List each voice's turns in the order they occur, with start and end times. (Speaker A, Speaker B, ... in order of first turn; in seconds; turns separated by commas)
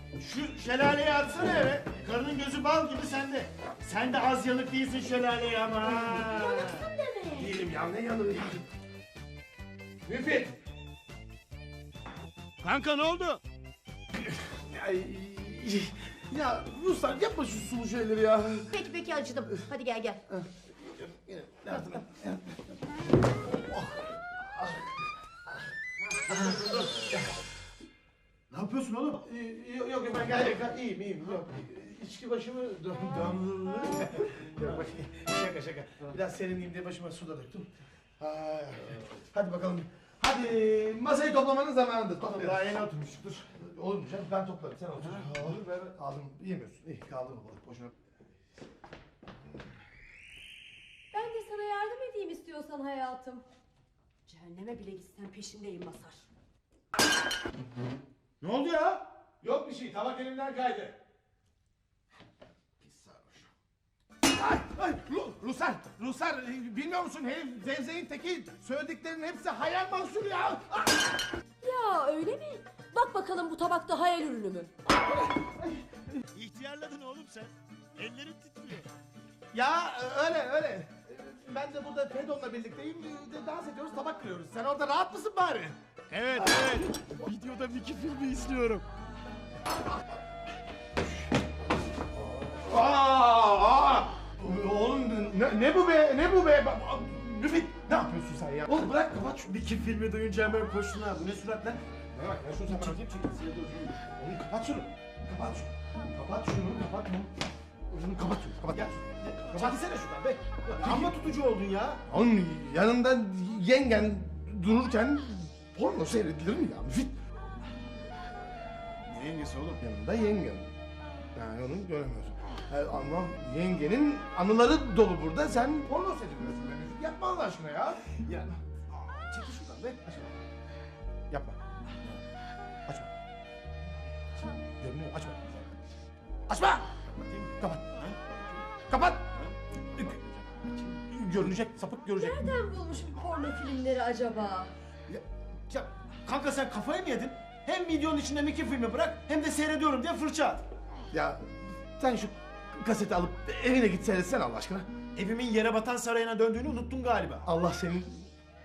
Speaker A: 0.1-6.9, Speaker B: 5.8-7.5, Speaker C: 7.3-8.6, Speaker C: 10.1-10.6, Speaker A: 12.6-13.4, Speaker C: 14.2-19.7, Speaker B: 18.7-20.2, Speaker C: 20.3-22.7, Speaker C: 23.6-25.0, Speaker C: 26.3-27.2, Speaker A: 26.3-27.1, Speaker A: 28.5-29.2, Speaker C: 29.2-42.7, Speaker A: 42.2-43.5, Speaker C: 43.5-47.9, Speaker A: 45.0-45.8, Speaker B: 51.1-53.4, Speaker B: 54.2-56.2, Speaker A: 58.4-59.0, Speaker C: 59.4-61.0, Speaker A: 62.8-63.4, Speaker C: 64.2-71.1, Speaker B: 71.6-74.7, Speaker A: 76.3-78.9, Speaker C: 79.5-85.8, Speaker A: 86.1-88.9, Speaker C: 86.3-86.6, Speaker C: 92.4-99.5, Speaker A: 99.3-101.8, Speaker C: 102.1-103.0, Speaker A: 102.6-104.0, Speaker C: 104.1-107.3, Speaker C: 107.9-109.8, Speaker A: 108.7-112.0, Speaker C: 110.8-111.2, Speaker C: 112.1-117.2, Speaker A: 119.0-119.8, Speaker C: 119.8-120.7, Speaker C: 121.3-128.0, Speaker A: 128.2-128.5, Speaker A: 129.3-129.9, Speaker C: 129.8-130.4, Speaker C: 131.3-131.6, Speaker C: 134.8-135.7, Speaker C: 136.5-136.9, Speaker A: 137.2-138.7, Speaker C: 137.6-137.9, Speaker C: 138.9-139.2, Speaker A: 139.3-141.0, Speaker C: 141.1-142.6, Speaker B: 142.2-144.7, Speaker A: 145.1-150.6, Speaker C: 151.1-154.9, Speaker A: 155.1-157.5, Speaker C: 157.4-158.2